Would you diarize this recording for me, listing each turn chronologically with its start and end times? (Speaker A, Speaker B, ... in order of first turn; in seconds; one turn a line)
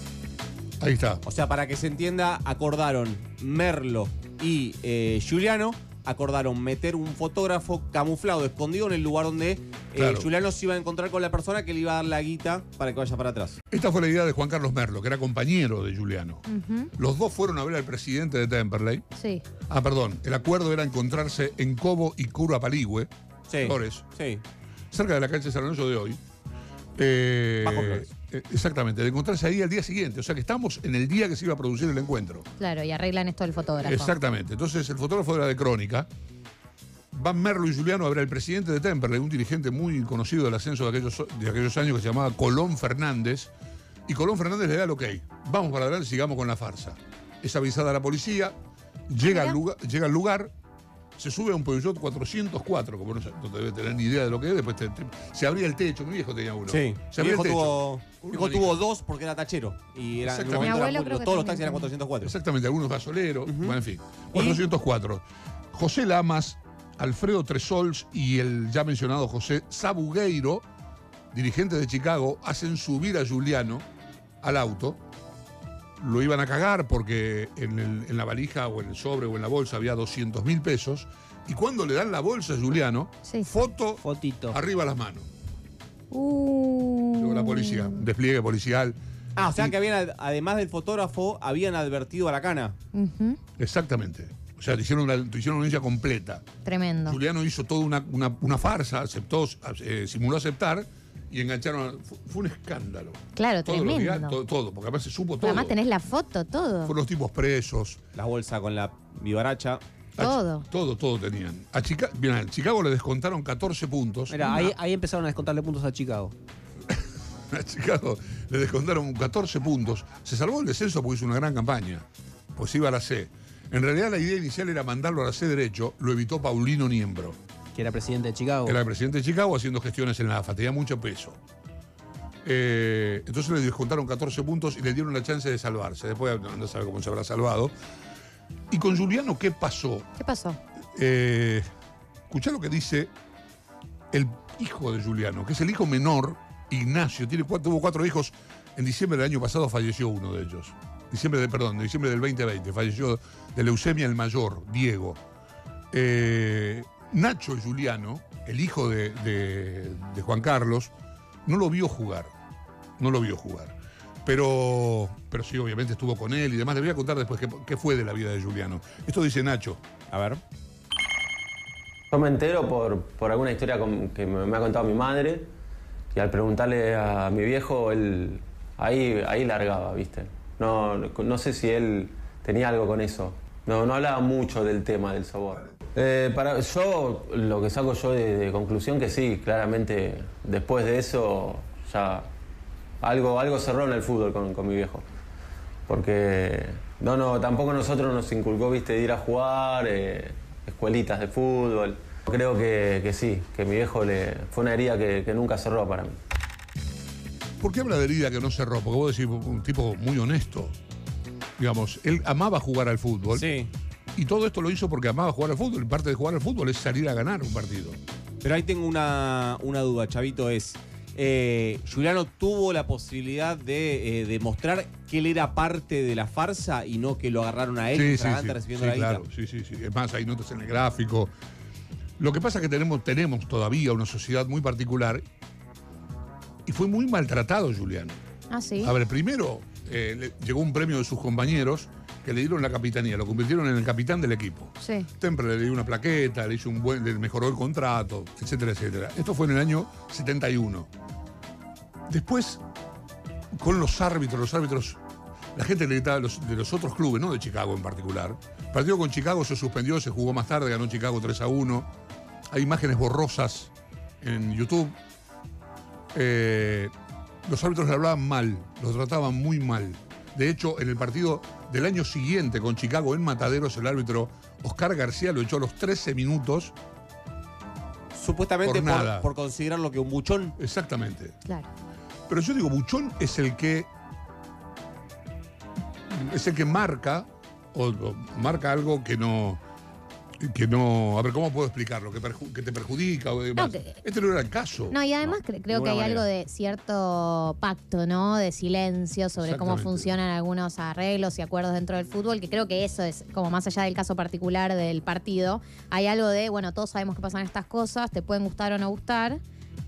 Speaker A: 0.8-1.2
Speaker B: 1.2-13.6
Speaker A: 9.9-10.3
Speaker A: 13.7-16.4
Speaker C: 16.5-16.9
Speaker A: 17.0-19.0
Speaker C: 19.1-19.4
Speaker A: 19.6-24.0
Speaker B: 23.5-24.4
Speaker A: 24.9-26.2
Speaker A: 27.0-32.5
Speaker B: 27.6-28.1
Speaker C: 32.6-34.1
Speaker A: 33.8-36.1
Speaker A: 37.1-43.5
Speaker A: 44.1-48.5
Speaker A: 49.1-50.5
Speaker C: 49.2-49.6
Speaker A: 51.2-58.8
Speaker B: 56.7-62.4
Speaker A: 60.2-60.8
Speaker C: 60.6-61.9
Speaker A: 62.2-70.7
Speaker B: 63.5-63.8
Speaker B: 64.3-64.6
Speaker A: 71.3-73.8
Speaker A: 74.4-75.0
Speaker A: 76.0-85.3
Speaker D: 84.0-84.6
Speaker C: 86.1-88.0
Speaker A: 87.2-89.8
Speaker B: 89.3-92.8
Speaker C: 92.9-93.4
Speaker A: 93.6-96.5
Speaker C: 96.6-97.2
Speaker A: 97.1-105.8
Speaker C: 103.3-104.4
Speaker C: 105.4-106.9
Speaker A: 106.8-108.0
Speaker B: 108.1-109.8
Speaker A: 110.2-114.7
Speaker C: 110.2-110.7
Speaker D: 114.3-116.3
Speaker A: 117.5-122.0
Speaker A: 122.5-127.4
Speaker D: 127.7-128.8
Speaker A: 128.6-131.4
Speaker A: 132.4-137.7
Speaker A: 138.7-140.1
Speaker C: 140.2-140.6
Speaker A: 140.9-141.7
Speaker A: 142.3-143.1
Speaker A: 144.1-155.2
Speaker A: 155.9-160.9
Speaker A: 161.4-162.3
Speaker A: 163.0-169.8
Speaker B: 170.1-170.4
Speaker E: 172.1-175.5
Speaker E: 176.1-192.3
Speaker E: 193.0-195.1
Speaker E: 195.9-206.2
Speaker A: 207.6-210.7
Speaker A: 211.6-213.5
Speaker B: 213.3-213.7
Speaker A: 214.2-218.0
Speaker B: 218.4-229.2
Speaker A: 227.9-231.3
Speaker A: 232.2-235.2
Speaker A: 236.7-238.2
Speaker C: 238.5-238.9
Speaker A: 238.8-250.9
Speaker C: 244.8-245.1
Speaker A: 252.1-252.6
Speaker A: 253.6-255.0
Speaker A: 255.5-261.9
Speaker A: 262.5-265.0
Speaker A: 266.1-266.9
Speaker A: 267.4-276.7
Speaker B: 278.1-280.5
Speaker A: 278.6-279.3
Speaker A: 280.6-281.4
Speaker A: 282.3-283.9
Speaker A: 286.1-289.6
Speaker A: 290.4-295.0
Speaker C: 293.6-293.9
Speaker C: 294.9-309.4
Speaker B: 295.7-296.3
Speaker A: 299.4-300.1